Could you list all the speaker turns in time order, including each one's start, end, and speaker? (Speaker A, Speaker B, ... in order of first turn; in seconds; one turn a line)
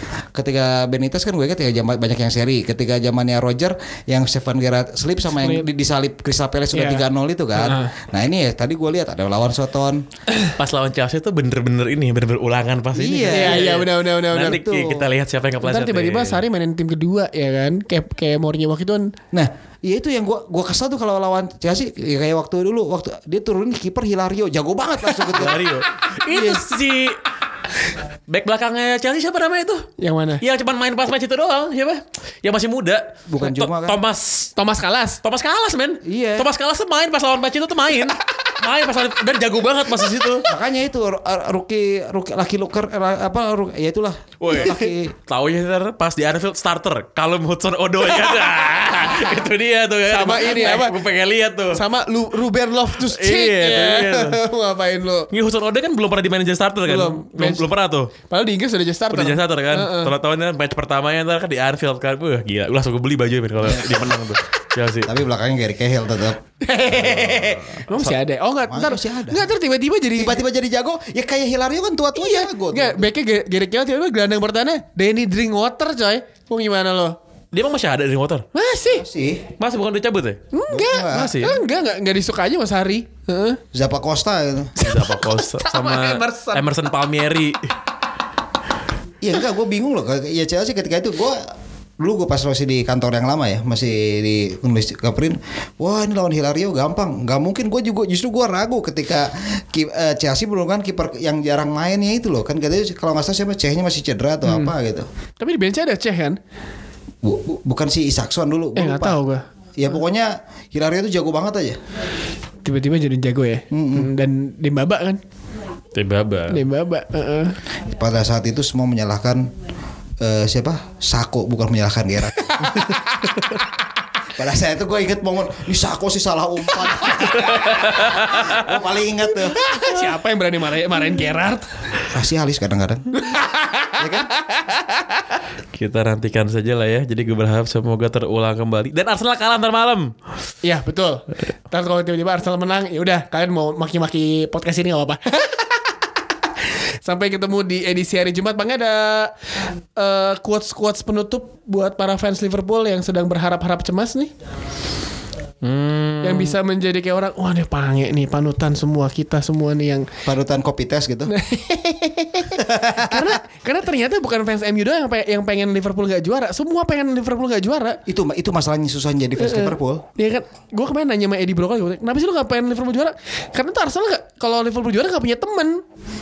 Speaker A: 0.3-10.0
Speaker B: 5.3-5.7
Speaker B: 6.7-7.0
Speaker B: 7.6-7.9
Speaker C: 10.6-16.4
Speaker A: 12.9-13.8
Speaker B: 13.3-14.6
Speaker A: 14.4-15.0
Speaker B: 15.6-19.1
Speaker A: 19.3-25.7
Speaker C: 25.3-27.2
Speaker A: 26.3-26.6
Speaker C: 28.3-29.9
Speaker B: 30.0-30.4
Speaker C: 30.4-34.5
Speaker A: 33.3-34.0
Speaker B: 34.5-35.2
Speaker C: 35.2-40.5
Speaker A: 36.0-36.5
Speaker A: 40.5-45.1
Speaker C: 44.4-51.8
Speaker B: 50.1-51.0
Speaker B: 51.7-55.3
Speaker C: 53.0-54.4
Speaker C: 55.3-58.1
Speaker B: 56.9-57.7
Speaker B: 58.3-60.1
Speaker C: 59.1-65.2
Speaker A: 63.6-63.9
Speaker A: 65.0-66.4
Speaker B: 66.6-70.4
Speaker C: 66.9-68.1
Speaker A: 68.7-69.5
Speaker A: 70.2-73.1
Speaker B: 72.1-77.2
Speaker C: 77.5-78.5
Speaker B: 78.5-79.0
Speaker A: 78.9-79.5
Speaker C: 79.6-80.5
Speaker B: 80.5-83.6
Speaker A: 80.7-81.3
Speaker C: 81.0-81.6
Speaker A: 83.7-84.9
Speaker C: 84.8-87.7
Speaker B: 84.8-86.7
Speaker A: 89.2-105.1
Speaker B: 104.5-104.7
Speaker B: 105.4-106.4
Speaker A: 107.2-109.2
Speaker B: 108.8-109.4
Speaker A: 109.8-111.8
Speaker B: 112.6-115.2
Speaker A: 113.7-114.1
Speaker C: 115.9-116.6
Speaker B: 116.5-117.6
Speaker A: 117.9-119.5
Speaker A: 120.2-122.9
Speaker B: 122.4-123.4
Speaker A: 124.3-129.6
Speaker C: 127.4-128.6
Speaker B: 129.4-131.7
Speaker C: 129.8-130.1
Speaker A: 132.1-133.1
Speaker B: 133.1-135.2
Speaker A: 134.0-134.3
Speaker C: 135.7-140.1
Speaker B: 140.6-145.9
Speaker B: 147.0-149.3
Speaker B: 149.9-154.3
Speaker C: 155.6-156.6
Speaker B: 156.2-160.1
Speaker A: 160.2-161.3
Speaker B: 161.3-168.0
Speaker A: 162.5-163.4
Speaker A: 168.1-170.0
Speaker B: 169.4-175.8